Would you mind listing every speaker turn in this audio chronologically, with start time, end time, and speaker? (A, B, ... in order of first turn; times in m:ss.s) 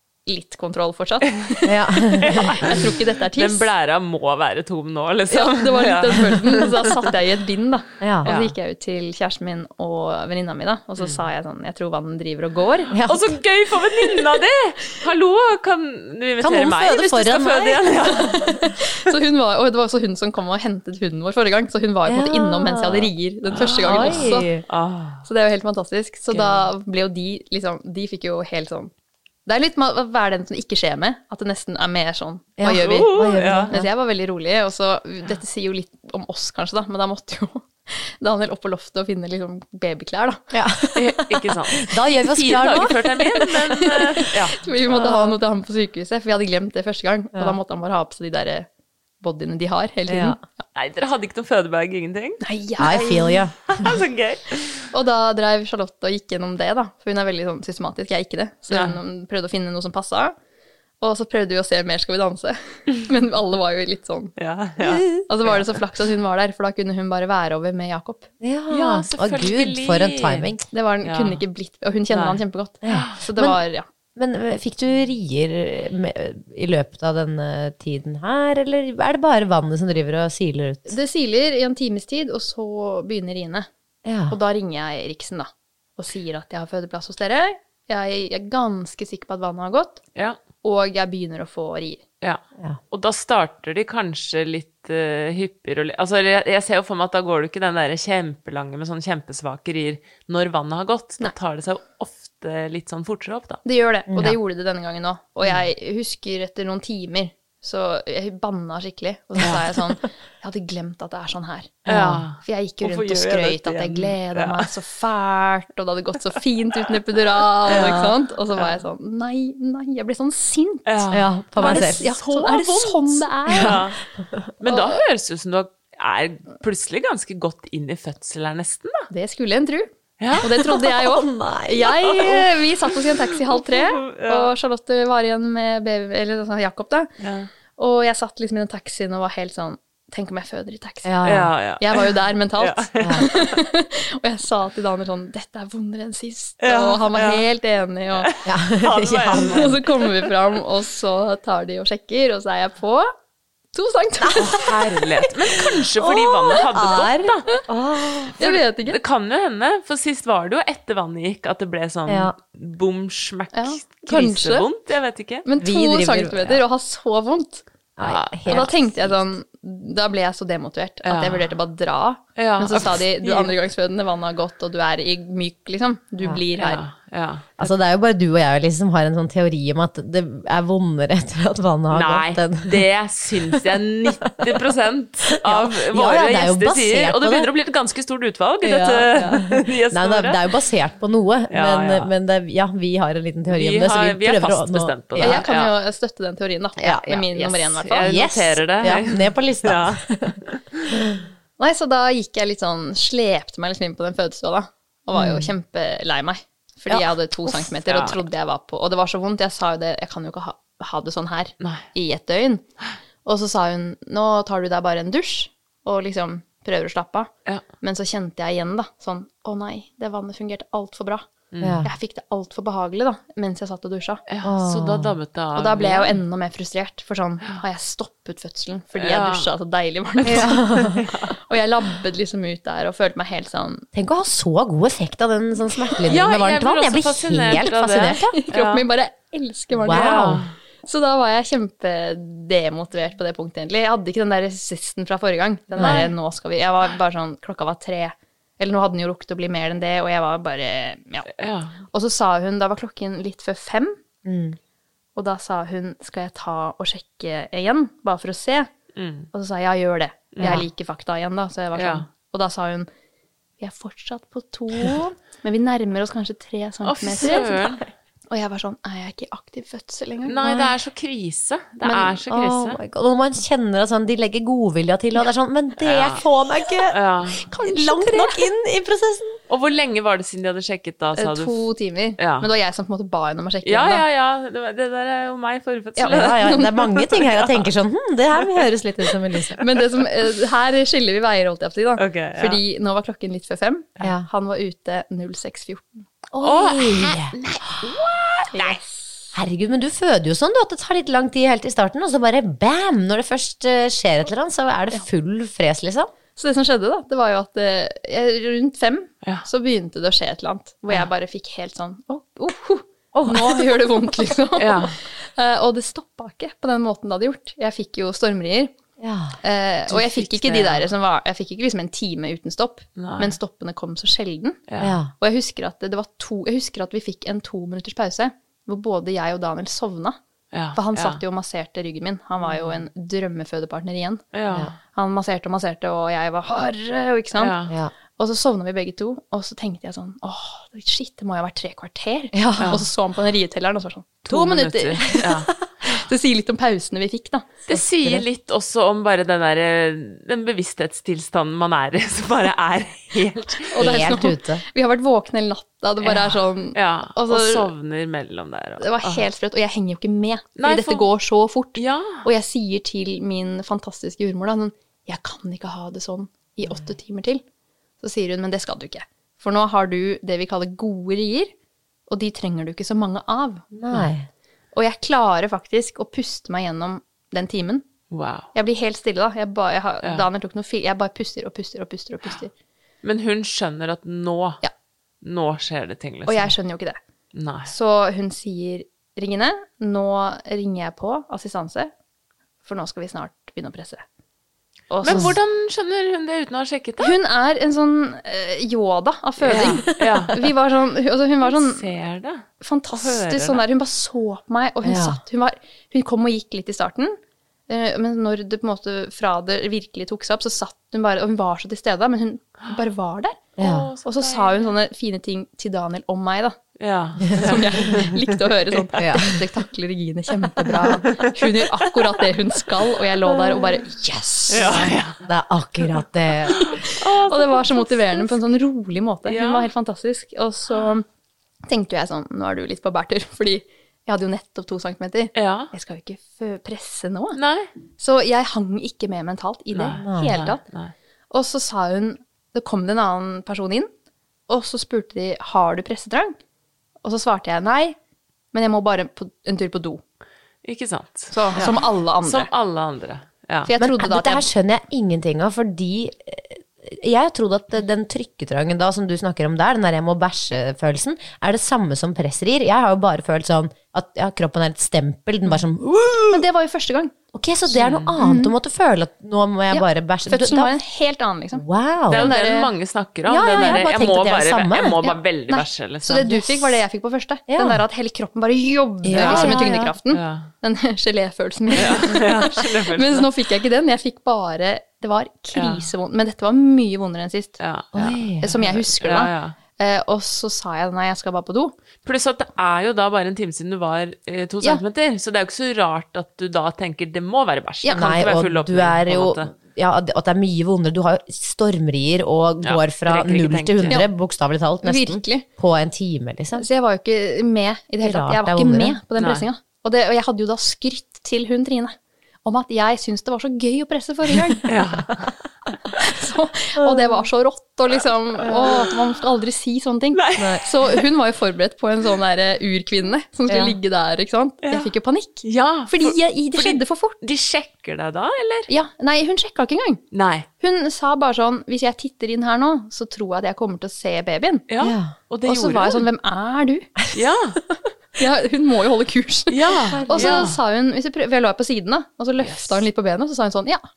0:00.2-0:01.7 A
0:01.6-0:02.6 B
0:02.2-0:06.9 C
0:02.3-0:03.7 A
0:05.3-0:12.9 A
0:08.0-0:08.3 B
0:08.2-0:08.5 C
0:12.9-0:13.4 B
0:13.0-0:18.5 C
0:16.4-0:18.6 B
0:18.6-0:24.5 A
0:22.1-0:23.0 B
0:23.5-0:25.2 C
0:23.8-0:24.6 B
0:25.2-0:28.9 A
0:26.3-0:26.7 C
0:29.4-0:40.5 A
0:32.6-0:33.9 B
0:32.7-0:33.7 C
0:40.5-0:43.4 B
0:41.0-0:45.2 C
0:43.7-0:48.7 A
0:49.2-0:50.4 A
0:50.1-0:50.4 B
0:50.7-0:52.4 C
0:52.4-0:53.4 A
0:52.8-0:53.9 B
0:53.7-0:54.9 C
0:54.9-1:00.3 A
0:58.7-0:59.0 C
1:01.0-1:04.3 A
1:04.4-1:05.6 C
1:04.8-1:05.2 B
1:05.3-1:08.3 A
1:08.4-1:10.6 B
1:08.7-1:10.5 C
1:10.7-1:13.8 A
1:11.0-1:11.4 C
1:12.1-1:13.2 C
1:12.8-1:13.6 B
1:14.2-1:20.9 B
1:20.8-1:23.7 A
1:24.0-1:24.4 B
1:24.3-1:30.0 A
1:30.6-1:32.0 A
1:32.2-1:43.6 C
1:43.6-2:03.8 A
1:44.1-1:44.4 B
1:51.8-1:54.7 C
1:51.9-1:52.2 B
1:57.7-1:58.7 C
2:00.9-2:04.0 C
2:01.1-2:02.1 B
2:03.5-2:04.5 B
2:04.6-2:09.1 C
2:04.7-2:05.0 A
2:09.1-2:17.1 A
2:10.2-2:10.5 C
2:10.7-2:12.5 B
2:13.5-2:14.5 C
2:17.2-2:17.5 C
2:17.8-2:28.3 A
2:21.0-2:21.5 B
2:21.2-2:23.5 C
2:23.0-2:23.3 B
2:26.6-2:27.4 C
2:28.2-2:30.1 C
2:28.4-2:29.8 B
2:29.3-2:33.1 A
2:33.7-2:34.7 A
2:34.2-2:38.5 B
2:34.4-2:37.4 C
2:38.4-2:39.0 A
2:38.4-2:45.4 C
2:42.1-2:42.3 B
2:43.5-2:44.7 A
2:45.4-2:47.6 A
2:45.6-2:46.6 B
2:48.0-2:49.2 B
2:48.0-2:48.7 C
2:48.5-2:56.8 A
2:51.0-2:51.5 C
2:52.4-2:53.5 C
2:56.6-2:57.6 C
2:57.6-3:02.8 B
3:01.9-3:10.4 C
3:05.4-3:07.5 B
3:08.6-3:15.4 B
3:11.5-3:12.1 C
3:13.5-3:15.7 C
3:15.2-3:18.1 A
3:16.8-3:17.2 B
3:17.1-3:20.9 C
3:18.0-3:20.4 B
3:21.6-3:32.6 A
3:25.1-3:25.5 B
3:26.9-3:27.6 B
3:27.8-3:28.2 C
3:31.6-3:31.8 C
3:33.2-3:41.2 A
3:41.5-3:41.8 C
3:41.6-3:41.9 B
3:41.8-3:44.2 A
3:44.3-3:46.2 C
3:44.4-3:45.1 B
3:45.5-3:50.9 A
3:49.0-3:49.5 C
3:50.2-3:51.3 C
3:50.2-3:51.0 B
3:51.4-3:53.8 A
3:53.9-3:58.3 B
3:56.1-3:58.8 C
3:58.4-4:11.3 A
3:59.8-4:00.4 B
3:59.9-4:00.5 C
4:05.8-4:06.1 B
4:11.4-4:11.8 C
4:11.9-4:14.0 A
4:14.2-4:14.6 B
4:15.1-4:18.7 A
4:18.9-4:19.3 C
4:19.3-4:22.9 A
4:20.3-4:20.6 C
4:21.7-4:22.1 C
4:23.6-4:27.6 A
4:26.8-4:27.8 C
4:28.3-4:30.5 A
4:30.2-4:32.8 C
4:30.4-4:30.7 B
4:31.8-4:32.2 A
4:32.3-4:36.9 B
4:35.8-4:36.2 C
4:36.9-4:37.5 C
4:37.5-4:38.4 A
4:37.5-4:39.4 B
4:39.5-4:41.6 C
4:41.2-4:44.0 A
4:42.2-4:42.5 C
4:43.6-4:47.6 C
4:46.0-4:46.7 A
4:46.1-4:49.6 B
4:49.6-4:56.0 A
4:52.0-4:52.6 C
4:54.0-4:54.3 B
4:56.3-4:57.4 B
4:56.4-4:58.8 C
4:58.5-4:59.2 A
4:59.3-5:06.1 B
5:06.4-5:18.7 A
5:13.1-5:13.7 B
5:14.6-5:15.0 C
5:19.0-5:19.4 B
5:19.4-5:24.6 A
5:19.9-5:20.9 C
5:23.0-5:23.4 C
5:24.7-5:25.0 C
5:24.8-5:25.1 B
5:25.2-5:30.2 A
5:30.5-5:31.2 C
5:30.7-5:34.2 A
5:34.3-5:34.7 C
5:34.9-5:37.5 A
5:37.4-5:37.7 C
5:38.2-5:47.5 A
5:42.3-5:42.8 B
5:42.6-5:42.8 C
5:44.3-5:45.5 C
5:45.0-5:45.5 B
5:47.7-5:53.8 C
5:47.7-5:48.2 B
5:53.7-5:57.7 A
5:53.8-5:54.6 B
5:56.0-5:59.2 C
5:58.8-6:07.4 A
6:00.6-6:01.1 C
6:01.8-6:02.2 C
6:08.0-6:11.5 A
6:12.1-6:13.6 A
6:13.7-6:14.3 B
6:14.7-6:17.8 A
6:18.1-6:18.5 C
6:18.5-6:22.5 A
6:23.0-6:24.6 C
6:25.2-6:26.5 C
6:26.3-6:27.0 A
6:27.3-6:27.7 C
6:27.7-6:31.9 A
6:32.6-6:34.0 A
6:34.9-6:35.3 A
6:35.0-6:37.1 C
6:35.1-6:35.3 B
6:37.0-6:41.8 A
6:39.4-6:40.4 C
6:39.5-6:40.2 B
6:41.4-6:43.6 C
6:42.6-6:47.2 A
6:44.8-6:45.2 B
6:47.7-6:53.4 A
6:53.6-6:53.9 B
6:53.6-6:54.7 C
6:54.0-6:56.6 A
6:56.8-6:58.2 C
6:57.3-7:04.9 A
6:58.7-6:59.0 C
6:59.0-6:59.4 B
7:00.6-7:02.2 C
7:04.5-7:05.2 C
7:04.7-7:06.8 B
7:06.6-7:11.0 A
7:06.9-7:08.3 C
7:09.2-7:09.7 C
7:11.6-7:17.4 A
7:15.3-7:15.7 C
7:17.4-7:17.7 C
7:18.0-7:20.6 A
7:19.7-7:20.9 C
7:20.0-7:20.4 B
7:21.3-7:23.9 A
7:24.5-7:26.4 A
7:27.0-7:28.0 A
7:28.5-7:30.0 A
7:30.6-7:33.7 C
7:31.3-7:32.5 A
7:33.6-7:34.5 A
7:33.8-7:46.4 B
7:46.3-7:47.1 A
7:47.3-7:50.7 B
7:47.7-7:48.1 C
7:48.2-7:48.5 A
7:49.7-7:52.7 A
7:51.5-7:52.3 B
7:52.1-7:56.4 C
7:53.2-7:55.1 B
7:53.5-7:53.8 A
7:54.8-8:07.6 A
7:56.2-7:56.8 B
7:57.5-7:57.8 B
7:59.0-7:59.9 B
7:59.1-8:00.5 C
8:01.7-8:03.3 C
8:05.5-8:05.9 C
8:07.6-8:09.6 C
8:07.9-8:08.6 B
8:08.4-8:11.7 A
8:12.0-8:19.5 C
8:17.8-8:18.3 A
8:17.9-8:26.6 B
8:22.6-8:24.0 C
8:24.8-8:25.4 A
8:26.6-8:34.7 A
8:28.0-8:29.0 B
8:29.2-8:29.4 C
8:34.6-8:35.4 C
8:36.0-8:47.2 A
8:36.8-8:37.2 B
8:38.4-8:38.8 B
8:40.1-8:41.0 C
8:43.5-8:43.8 B
8:44.6-8:44.9 C
8:45.4-8:48.7 C
8:48.7-8:50.0 A
8:50.1-8:50.5 C
8:50.6-8:54.6 A
8:54.7-8:56.0 C
8:54.8-8:55.1 B
8:55.4-8:56.9 A
8:57.1-8:57.6 C
8:58.2-9:03.8 A
8:59.5-9:00.6 C
8:59.9-9:00.5 B
9:02.4-9:02.8 C